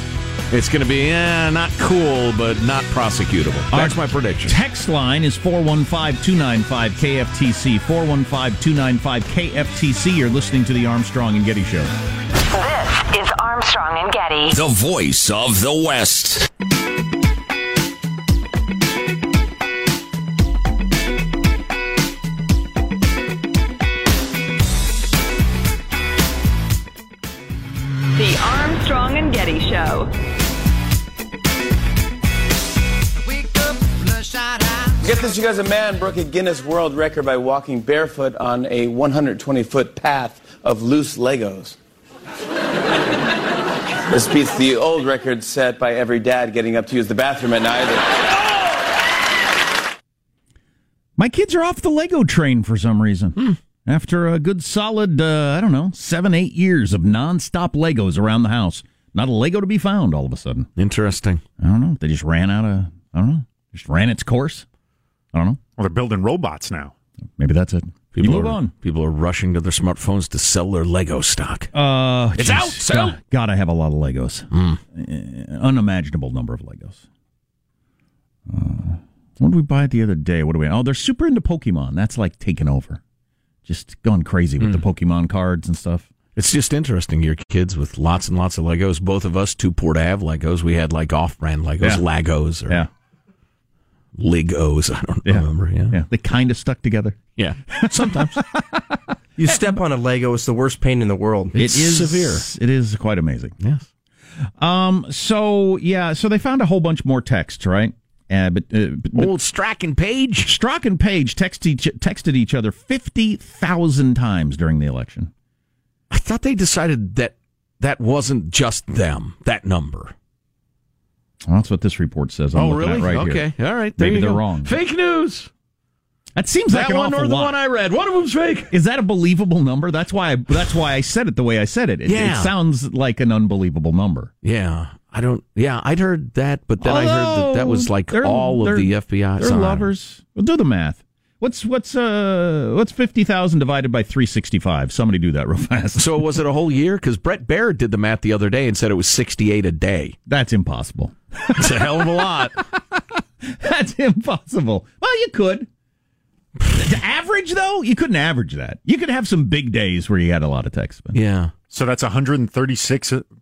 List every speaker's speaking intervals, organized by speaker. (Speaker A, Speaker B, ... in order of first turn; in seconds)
Speaker A: 0.5-4.6, 60.8-61.4, 68.1-71.7, 72.4-73.2, 74.5-74.8, 86.4-92.8, 94.2-96.0, 97.4-98.4, 101.6-102.5, 103.6-103.9, 109.2-110.5, 116.1-120.1, 122.5-125.5, 126.7-128.7, 132.1-132.5, 134.4-139.9, 146.0-150.2, 151.6-152.6, 161.1-161.5
Speaker B: 3.7-11.9, 51.2-60.7, 61.6-64.7, 65.3-65.6, 67.4-68.7, 71.7-77.0, 78.5-83.0, 83.7-86.1, 95.2-97.2, 97.8-98.6, 101.5-103.5, 104.6-109.3, 110.4-115.3, 121.5-124.8, 126.4-127.6, 128.7-134.3, 136.8-146.3, 150.3-155.7, 156.7-161.2
Speaker C: 12.4-14.5
Speaker D: 14.5-16.5
Speaker E: 28.1-30.1
Speaker F: 35.0-41.8, 44.1-48.1
Speaker G: 65.8-66.9, 161.7-163.3
Speaker H: 99.4-101.5